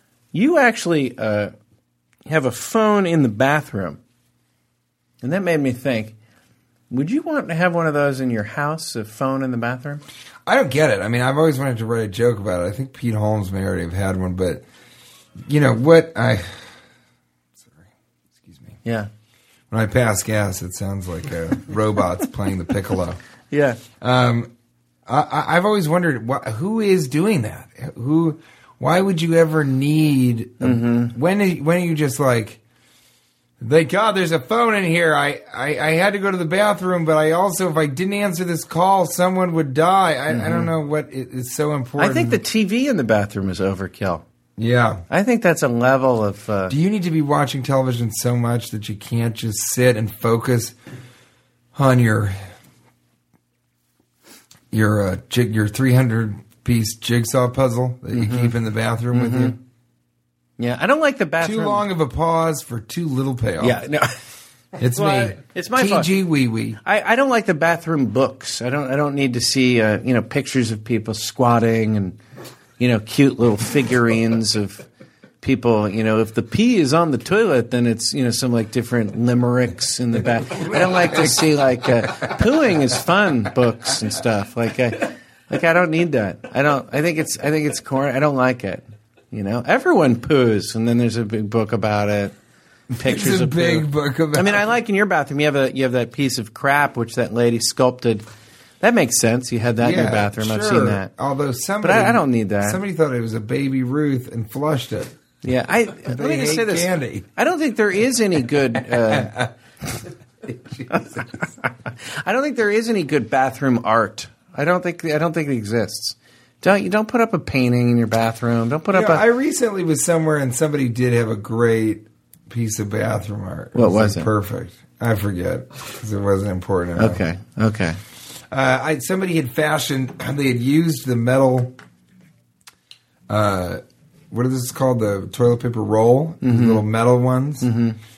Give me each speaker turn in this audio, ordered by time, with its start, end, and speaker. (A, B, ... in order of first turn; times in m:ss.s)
0:00.3-0:01.5 A
0:02.2-0:04.0 A
0:05.2-0:06.1 A
0:06.9-0:10.0 A
0:10.4-0:14.6 B
0:15.4-0:16.7 B
0:18.4-0:18.8 B
0:19.7-0:23.2 B
0:23.5-0:23.8 A
0:24.0-0:24.5 B
0:25.1-0:32.6 B
0:30.6-0:31.1 A
0:33.6-0:42.4 B
0:40.3-0:40.7 A
0:42.0-0:44.2 A
0:44.6-0:45.0 B
0:45.1-0:46.7 A
0:46.7-0:50.7 B
0:51.7-0:52.4 B
0:54.7-0:59.6 B
0:58.1-0:58.5 A
0:59.1-0:59.6 A
1:00.6-1:01.8 A
1:01.4-1:03.8 B
1:03.6-1:04.1 A
1:04.8-1:06.8 B
1:04.9-1:06.1 A
1:06.8-1:12.2 A
1:12.8-1:14.9 A
1:15.4-1:32.3 A
1:20.6-1:21.3 B
1:32.9-1:38.2 A
1:33.0-1:34.6 B
1:38.8-1:41.1 A
1:39.8-1:45.1 B
1:41.8-1:42.8 A
1:45.4-1:49.4 A
1:46.0-1:47.2 B
1:49.0-1:49.5 B
1:50.4-1:51.0 B
1:52.2-1:59.2 A
1:58.9-2:07.2 B
2:03.7-2:04.3 A
2:07.0-2:08.0 A
2:08.5-2:11.8 B
2:13.3-2:17.7 B
2:16.4-2:16.8 A
2:17.6-2:18.0 A